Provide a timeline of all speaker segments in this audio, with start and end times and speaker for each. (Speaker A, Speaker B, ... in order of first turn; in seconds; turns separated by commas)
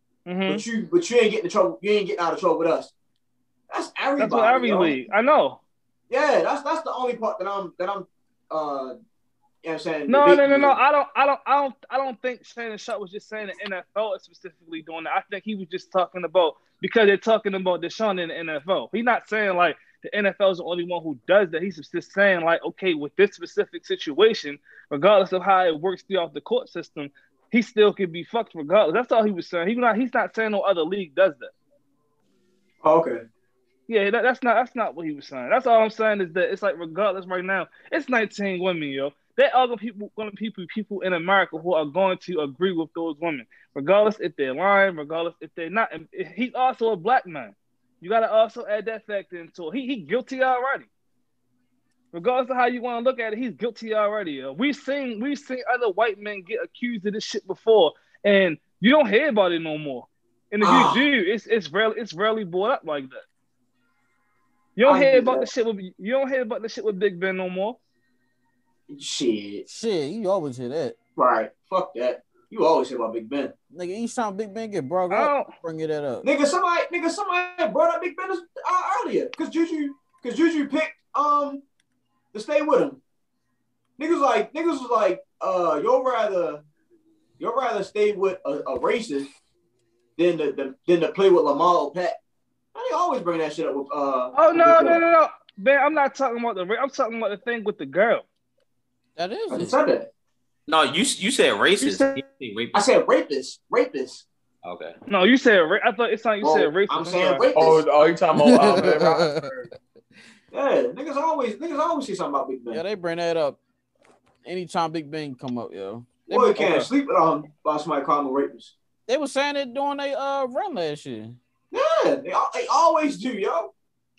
Speaker A: 0.3-0.6, Speaker B: 0.5-2.9, Speaker B: 3.7-5.0, Speaker A: 4.2-5.6, Speaker B: 6.1-8.9, Speaker B: 9.6-10.8, Speaker A: 10.1-31.5, Speaker B: 32.8-33.2, Speaker A: 33.9-50.9, Speaker A: 52.1-63.2, Speaker B: 60.6-61.0, Speaker A: 64.8-67.8, Speaker B: 64.8-65.5, Speaker B: 68.9-69.6, Speaker C: 69.7-71.0, Speaker B: 71.2-73.5, Speaker C: 73.7-76.3, Speaker A: 75.1-75.5, Speaker B: 76.2-81.6, Speaker B: 82.3-83.0, Speaker B: 84.0-86.6, Speaker B: 87.4-89.3, Speaker B: 90.2-92.2, Speaker B: 92.7-95.0, Speaker A: 94.3-98.2, Speaker C: 99.2-99.7, Speaker B: 99.5-100.1, Speaker D: 100.7-102.8, Speaker A: 101.8-102.2, Speaker B: 102.7-104.2, Speaker D: 104.6-104.9, Speaker A: 105.1-107.5, Speaker B: 106.4-107.9, Speaker C: 107.1-107.4, Speaker E: 107.5-109.7, Speaker C: 108.3-109.5, Speaker B: 110.5-112.8, Speaker C: 112.7-113.6, Speaker C: 114.4-116.7, Speaker B: 116.3-118.7, Speaker A: 116.6-116.8, Speaker C: 119.1-121.4, Speaker B: 121.7-123.7